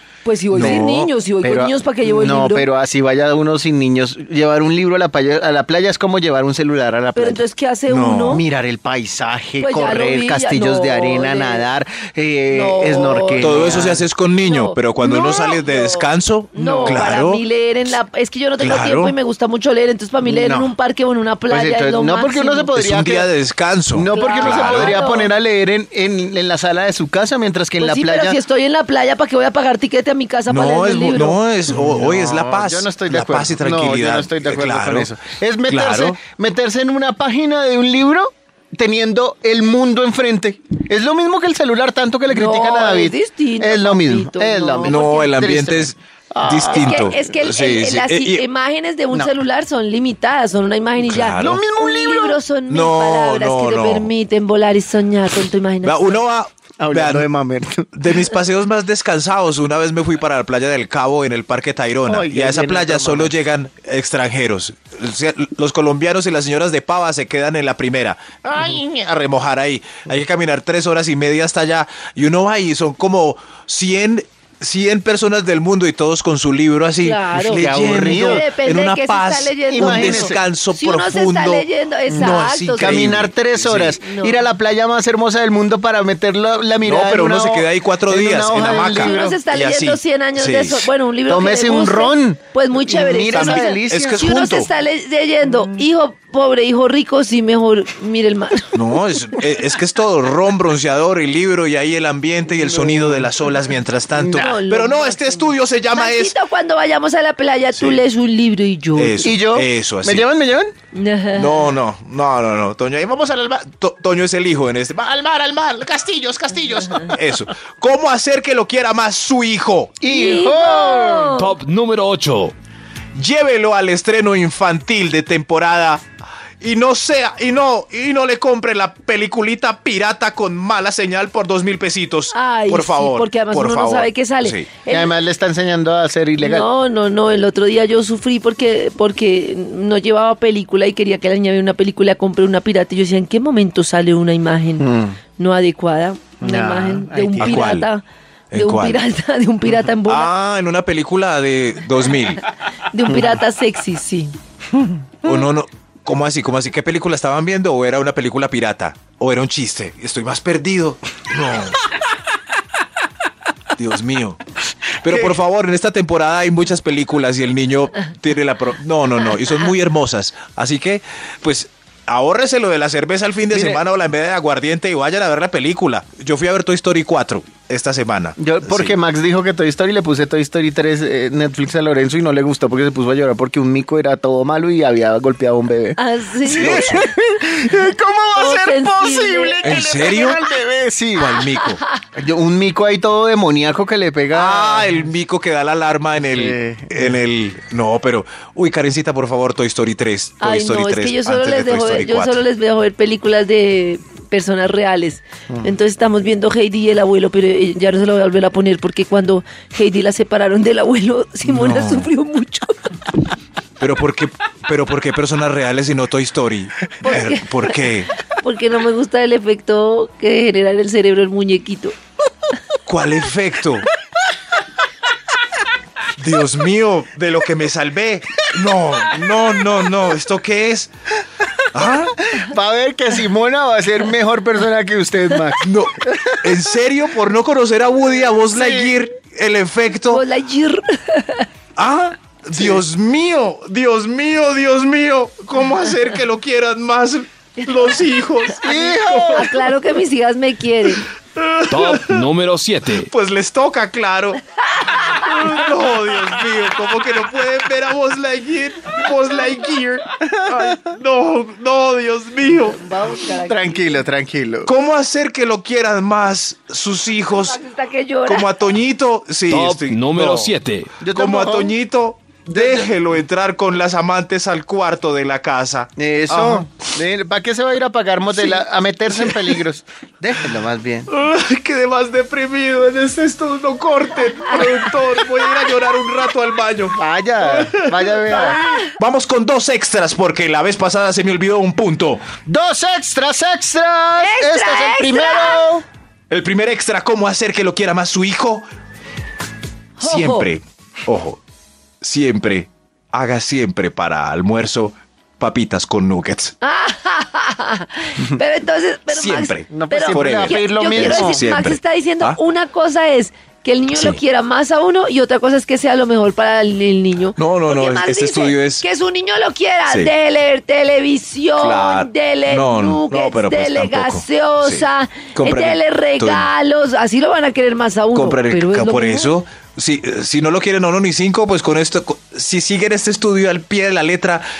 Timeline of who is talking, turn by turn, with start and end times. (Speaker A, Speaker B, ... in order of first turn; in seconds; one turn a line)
Speaker A: 0.2-2.7
Speaker B: 0.5-0.8
Speaker C: 0.5-1.1
Speaker B: 1.4-7.4
Speaker A: 7.2-8.4
Speaker C: 7.9-8.4
Speaker B: 8.3-14.0
Speaker A: 9.6-11.7
Speaker A: 12.5-13.9
Speaker C: 13.4-17.4
Speaker A: 14.4-22.7
Speaker B: 16.6-17.1
Speaker C: 18.6-19.1
Speaker B: 20.2-20.7
Speaker B: 21.5-23.3
Speaker C: 22.8-24.9
Speaker B: 23.9-28.4
Speaker A: 24.1-25.3
Speaker A: 27.8-31.4
Speaker C: 30.5-35.1
Speaker B: 31.7-47.1
Speaker C: 35.7-36.2
Speaker A: 42.3-45.0
Speaker C: 44.8-48.4
Speaker A: 46.7-56.2
Speaker C: 51.1-51.6
Speaker B: 51.3-52.4
Speaker C: 52.7-54.1
Speaker C: 55.8-57.3
Speaker B: 56.8-57.9
Speaker C: 57.9-84.0
Speaker B: 62.1-63.3
Speaker A: 77.0-83.0
Speaker B: 77.5-78.5
Speaker B: 79.7-80.4
Speaker B: 82.1-89.2
Speaker A: 84.0-84.5
Speaker C: 86.8-90.9
Speaker A: 88.7-98.7
Speaker B: 91.3-94.2
Speaker C: 93.3-94.7
Speaker C: 98.7-106.3
Speaker B: 102.5-103.3
Speaker B: 104.2-104.6
Speaker A: 104.3-109.3
Speaker C: 107.7-108.0
Speaker C: 109.0-110.2
Speaker B: 109.2-110.7
Speaker A: 110.9-111.7
Speaker C: 111.3-120.0
Speaker B: 120.0-121.4
Speaker A: 120.1-121.5
Speaker D: 121.3-122.5
Speaker C: 123.1-126.0
Speaker C: 126.6-134.7
Speaker A: 132.3-135.1
Speaker B: 134.9-136.7
Speaker A: 136.4-148.0
Speaker B: 144.8-145.2
Speaker B: 146.4-147.7
Speaker C: 147.4-147.9
Speaker C: 148.5-149.0
Speaker A: 148.5-150.3
Speaker C: 150.1-152.4
Speaker A: 152.9-154.3
Speaker B: 154.7-155.3
Speaker C: 155.2-161.8
Speaker C: 163.7-164.4
Speaker C: 165.0-178.9
Speaker B: 173.5-173.8
Speaker B: 178.4-191.3
Speaker A: 186.0-187.1
Speaker C: 186.5-187.1
Speaker A: 188.3-189.6
Speaker C: 189.6-190.4
Speaker C: 191.2-191.8
Speaker B: 192.1-195.0
Speaker C: 194.3-202.4
Speaker B: 196.3-197.1
Speaker A: 200.4-213.0
Speaker C: 211.4-212.1
Speaker C: 213.8-218.1
Speaker A: 217.0-221.9
Speaker C: 222.8-223.9
Speaker C: 226.2-230.9
Speaker C: 231.7-232.2
Speaker B: 232.2-236.5
Speaker C: 235.6-240.2
Speaker B: 238.5-238.9
Speaker A: 240.1-241.5
Speaker C: 241.8-249.7
Speaker B: 242.5-242.8
Speaker A: 247.6-247.9
Speaker B: 248.6-249.5
Speaker A: 249.2-251.1
Speaker C: 251.3-252.2
Speaker D: 251.7-253.1
Speaker C: 253.1-262.8
Speaker B: 260.2-260.6
Speaker A: 262.4-264.0
Speaker B: 263.4-264.7
Speaker C: 264.6-267.6
Speaker A: 267.3-268.5
Speaker C: 268.2-270.5
Speaker D: 269.5-270.9
Speaker B: 271.0-271.7
Speaker C: 271.1-276.8
Speaker B: 272.5-272.9
Speaker B: 276.0-281.1
Speaker C: 281.1-292.3
Speaker B: 286.9-288.6
Speaker B: 292.4-295.8
Speaker A: 294.2-295.6
Speaker C: 296.3-298.6
Speaker A: 300.0-300.5
Speaker C: 300.0-301.4
Speaker C: 302.0-306.5
Speaker A: 306.6-329.3
Speaker C: 309.1-312.4
Speaker B: 309.7-311.5
Speaker C: 317.4-318.8
Speaker C: 321.6-326.5
Speaker C: 328.1-334.4